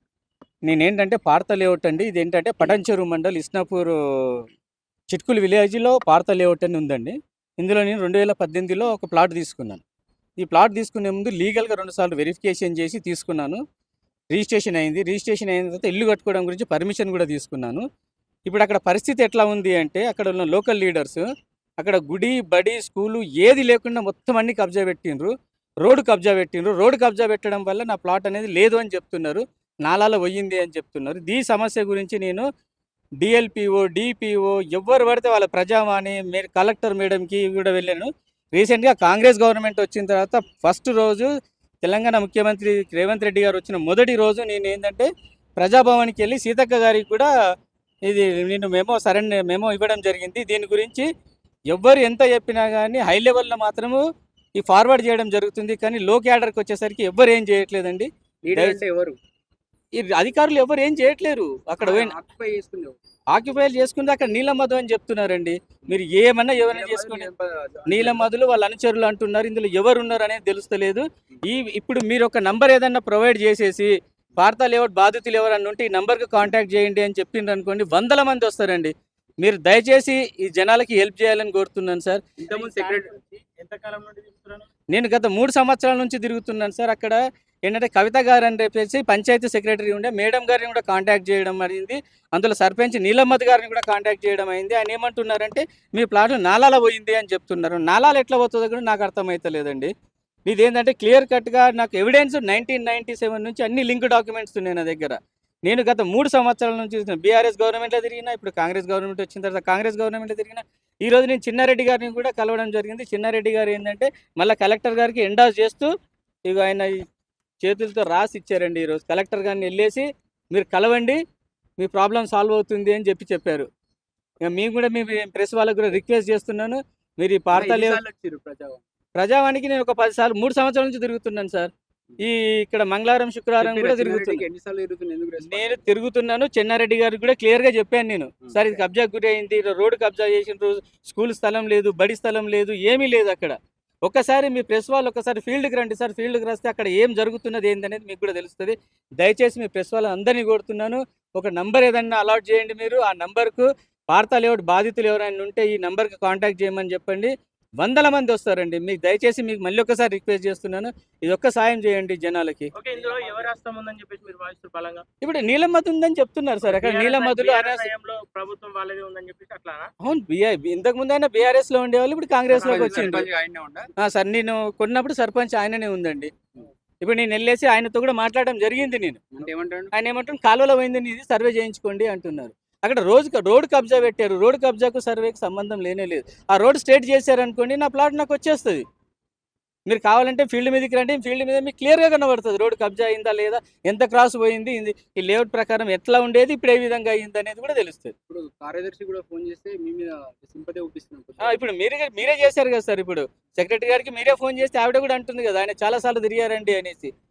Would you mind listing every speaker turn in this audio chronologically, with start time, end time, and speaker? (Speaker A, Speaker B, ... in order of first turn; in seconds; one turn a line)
Speaker A: 0.7-4.4
Speaker A: 5.1-9.8
Speaker A: 10.4-13.6
Speaker A: 14.3-17.8
Speaker A: 18.4-21.2
Speaker A: 21.8-32.5
Speaker A: 33.2-41.3
Speaker A: 41.8-47.3
Speaker A: 48.1-51.1
Speaker A: 51.7-54.0
Speaker A: 54.6-58.8
Speaker B: 58.4-59.2
Speaker A: 59.9-62.1
Speaker B: 61.8-63.0
Speaker A: 63.3-67.3
Speaker B: 66.6-68.3
Speaker A: 67.8-82.2
Speaker B: 82.4-83.2
Speaker C: 82.4-84.7
Speaker A: 84.9-99.9
Speaker A: 100.5-115.9
Speaker A: 116.4-117.0
Speaker A: 117.6-121.2
Speaker A: 121.8-123.7
Speaker A: 124.4-128.0
Speaker B: 127.5-128.8
Speaker A: 129.1-134.4
Speaker B: 133.6-135.9
Speaker A: 135.4-162.7
Speaker B: 138.4-138.8
Speaker C: 162.8-165.0
Speaker B: 162.9-163.5
Speaker A: 165.2-167.9
Speaker C: 166.6-169.9
Speaker A: 170.0-173.3
Speaker B: 172.5-173.9
Speaker A: 174.0-176.3
Speaker A: 177.0-188.8
Speaker B: 179.3-179.9
Speaker A: 189.9-198.1
Speaker B: 198.3-201.6
Speaker A: 201.4-207.1